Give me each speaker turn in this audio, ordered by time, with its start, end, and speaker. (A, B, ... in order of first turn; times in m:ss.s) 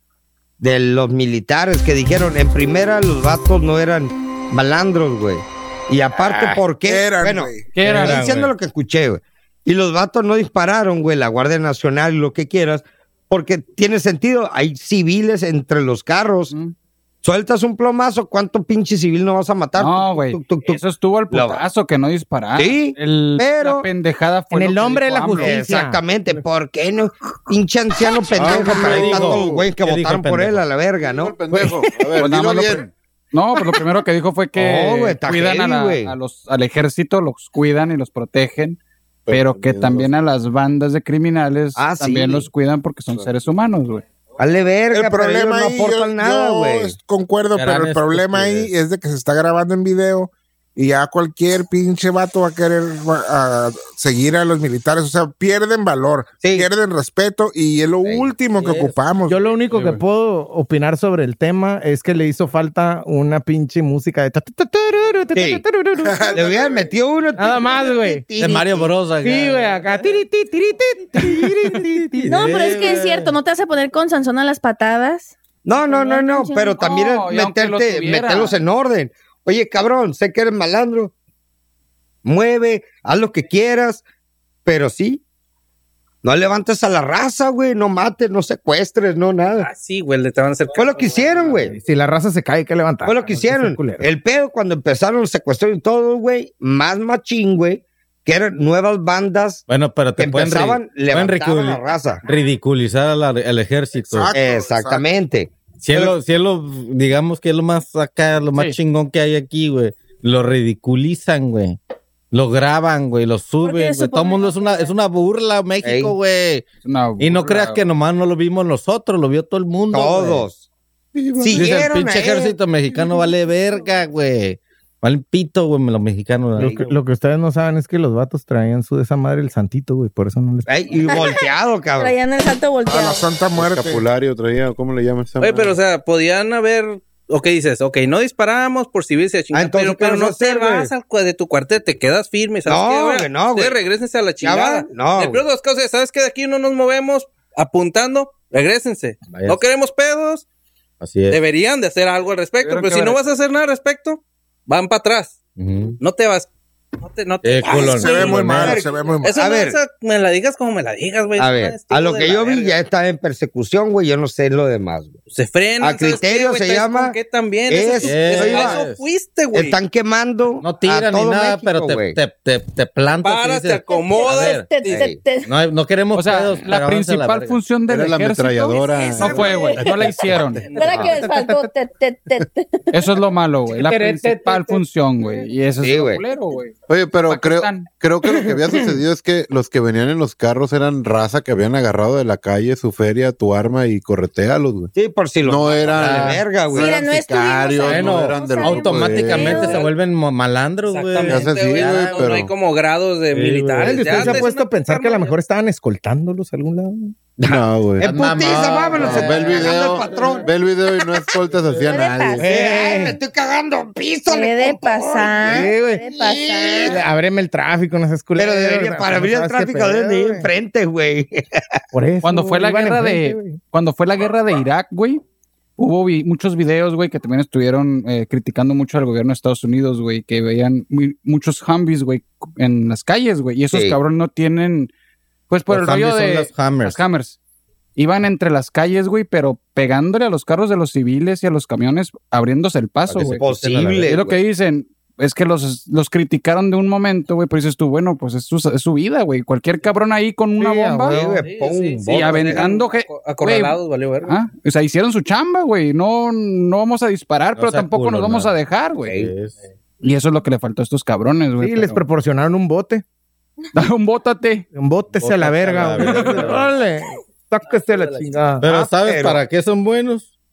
0:00.6-0:16.5 A
0:06.8-0:07.7 B
0:07.7-0:08.2 C
0:07.8-0:08.5 D
0:17.2-0:21.6 A
0:19.8-0:25.6 C
0:22.6-0:23.9 A
0:24.5-0:26.4 E
0:25.3-0:31.7 A
0:28.3-0:29.6 F
0:28.4-0:30.6 D
0:31.0-0:32.9 F
0:32.2-0:38.8 C
0:34.5-0:36.1 A
0:39.3-0:40.1 F
0:39.3-0:44.0 C
0:41.8-0:42.5 A
0:44.4-0:47.0 A
0:44.9-0:59.4 B
0:47.5-0:48.7 D
0:56.4-0:56.7 A
0:58.6-0:58.9 D
0:59.3-1:06.3 E
1:05.3-1:05.6 A
1:06.3-1:08.9 A
1:07.4-1:08.2 E
1:08.4-1:09.8 D
1:09.2-1:12.3 E
1:11.2-1:13.3 D
1:12.3-1:16.8 G
1:15.6-1:21.1 A
1:16.8-1:18.6 C
1:22.2-1:24.0 A
1:24.6-1:25.2 A
1:26.2-1:29.7 A
1:29.5-1:31.7 H
1:30.7-1:31.8 A
1:31.7-1:34.1 E
1:33.0-1:39.6 A
1:39.7-1:44.3 D
1:40.2-1:42.2 A
1:44.0-1:45.0 B
1:44.3-1:46.2 A
1:45.8-1:51.8 D
1:52.3-1:56.7 D
1:53.6-1:54.9 G
1:55.8-1:56.1 A
1:56.8-1:57.8 C
1:57.2-2:00.4 D
1:59.9-2:00.6 A
2:01.2-2:01.7 F
2:01.4-2:02.5 A
2:01.5-2:06.9 D
2:06.6-2:10.8 E
2:06.6-2:06.9 A
2:10.7-2:12.1 A
2:11.1-2:11.4 G
2:12.0-2:13.2 G
2:12.9-2:14.0 B
2:13.6-2:15.8 F
2:15.4-2:30.4 H
2:19.5-2:20.9 A
2:22.6-2:23.8 A
2:24.4-2:25.4 A
2:29.2-2:29.6 D
2:31.0-2:31.4 D
2:31.3-2:35.4 H
2:32.6-2:33.2 C
2:35.6-2:36.0 D
2:36.0-2:36.5 H
2:37.0-2:42.8 H
2:37.4-2:38.7 D
2:37.6-2:39.8 A
2:37.7-2:39.4 B
2:41.4-2:45.2 A
2:45.3-2:49.8 H
2:45.8-2:47.2 A
2:47.7-2:48.8 A
2:48.0-2:49.0 D
2:49.5-2:52.2 A
2:50.6-2:54.7 D
2:53.2-2:55.0 H
2:53.9-2:55.5 G
2:54.9-2:55.2 A
2:55.4-2:57.6 D
2:56.1-3:00.7 C
2:57.9-3:00.2 F
2:58.8-2:59.9 G
3:00.6-3:01.2 H
3:00.7-3:02.9 G
3:02.9-3:06.7 C
3:03.7-3:05.4 E
3:05.8-3:06.2 A
3:06.9-3:19.8 F
3:07.3-3:07.9 C
3:14.9-3:17.0 A
3:15.9-3:16.4 D
3:16.7-3:19.9 G
3:17.8-3:22.4 D
3:20.9-3:25.3 H
3:21.3-3:22.5 F
3:23.3-3:24.4 D
3:23.8-3:27.1 E
3:27.4-3:30.5 A
3:27.4-3:28.1 F
3:28.0-3:30.4 D
3:28.3-3:29.0 C
3:28.9-3:32.6 F
3:31.9-3:32.4 G
3:32.4-3:33.2 E
3:32.4-3:37.0 A
3:34.3-3:37.0 G
3:35.4-3:36.0 E
3:36.8-3:40.5 E
3:38.4-3:41.8 A
3:41.9-3:43.6 E
3:42.2-3:45.2 C
3:45.8-3:54.9 C
3:53.7-3:54.0 A
3:55.5-3:57.4 C
3:55.7-3:57.0 D
3:58.0-4:03.5 C
4:03.1-4:04.1 D
4:03.1-4:04.4 A
4:04.0-4:11.2 C
4:10.5-4:11.4 E
4:11.0-4:12.7 A
4:11.2-4:14.4 H
4:12.0-4:19.2 C
4:17.5-4:19.6 D
4:19.0-4:19.3 A
4:20.0-4:22.0 C
4:21.6-4:23.0 E
4:23.7-4:24.7 C
4:24.7-4:28.6 E
4:25.1-4:26.7 D
4:26.0-4:26.5 C
4:27.9-4:28.2 H
4:28.6-4:30.3 D
4:28.7-4:29.4 A